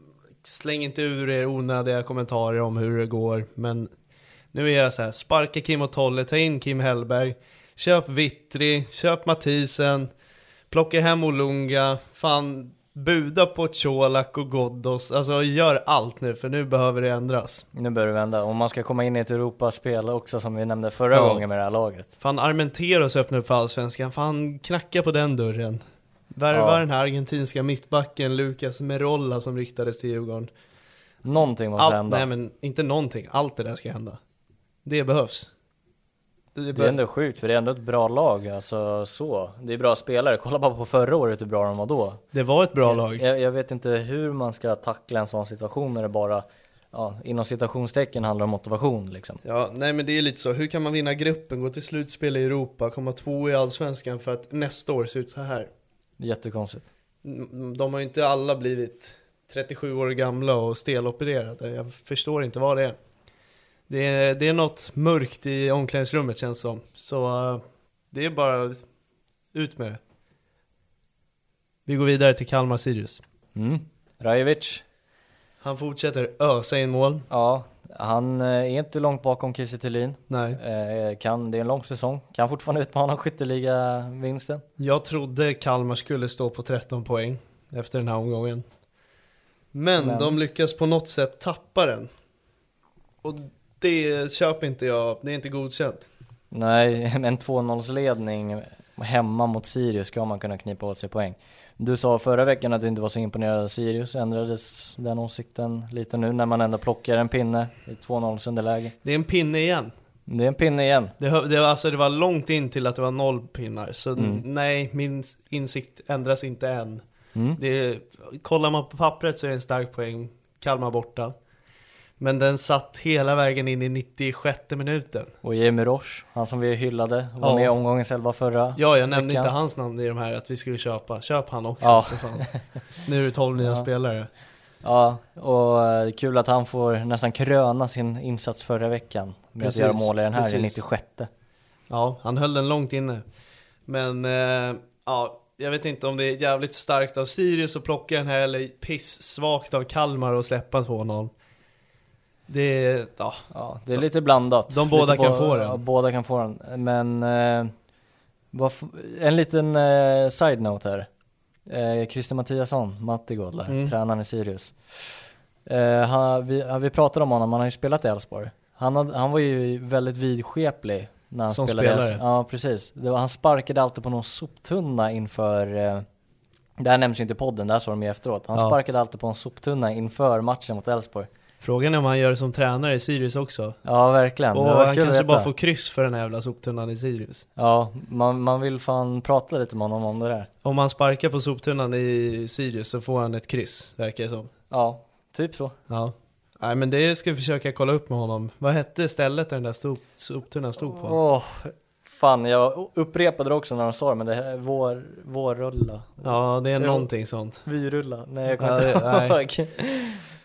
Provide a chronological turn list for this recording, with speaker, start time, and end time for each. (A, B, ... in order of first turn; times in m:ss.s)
0:00.4-0:03.9 A
0:04.5-0:10.1 A
0:10.7-0:17.7 A
0:17.7-0:22.1 B
0:21.1-0:21.4 A
0:22.2-0:25.8 A
0:26.3-0:30.5 A
0:26.5-0:26.8 B
0:31.2-0:32.3 B
0:31.8-0:34.2 A
0:34.8-0:35.5 A
0:36.6-0:37.0 A
0:36.7-0:42.2 B
0:42.3-0:43.2 A
0:42.8-0:49.4 B
0:49.4-0:55.7 A
0:56.2-0:56.9 B
0:57.2-1:03.0 A
1:03.9-1:08.8 A
1:09.5-1:10.0 A
1:11.9-1:13.2 A
1:13.6-1:14.8 B
1:15.6-1:17.3 A
1:17.3-1:24.6 B
1:20.3-1:20.6 A
1:24.8-1:28.6 A
1:29.7-1:32.1 A
1:30.0-1:30.4 B
1:33.2-1:36.1 A
1:36.5-1:49.0 B
1:49.0-1:49.9 A
1:50.3-1:51.2 B
1:51.2-1:57.0 A
1:54.2-1:54.4 B
1:57.4-1:57.6 B
1:57.6-2:01.4 A
2:02.2-2:05.3 A
2:05.4-2:09.5 B
2:07.4-2:07.7 A
2:08.8-2:12.5 A
2:11.8-2:12.6 B
2:13.0-2:14.3 A
2:13.6-2:13.9 B
2:14.8-2:21.3 B
2:19.6-2:20.8 A
2:21.9-2:23.2 A
2:23.9-2:31.3 A
2:32.5-2:33.4 A
2:33.5-2:37.7 B
2:34.7-2:35.8 A
2:38.5-2:41.1 B
2:41.7-2:45.2 B
2:43.7-2:43.9 A
2:45.7-2:56.1 B
2:51.5-2:52.2 A
2:56.8-3:01.3 B
3:01.6-3:03.8 A
3:03.8-3:05.5 B
3:04.5-3:07.5 A
3:07.6-3:10.5 B
3:10.6-3:14.5 A
3:14.7-3:15.8 B
3:15.9-3:21.2 A
3:20.9-3:27.1 B
3:26.2-3:27.6 A
3:27.6-3:30.2 B
3:28.6-3:29.4 A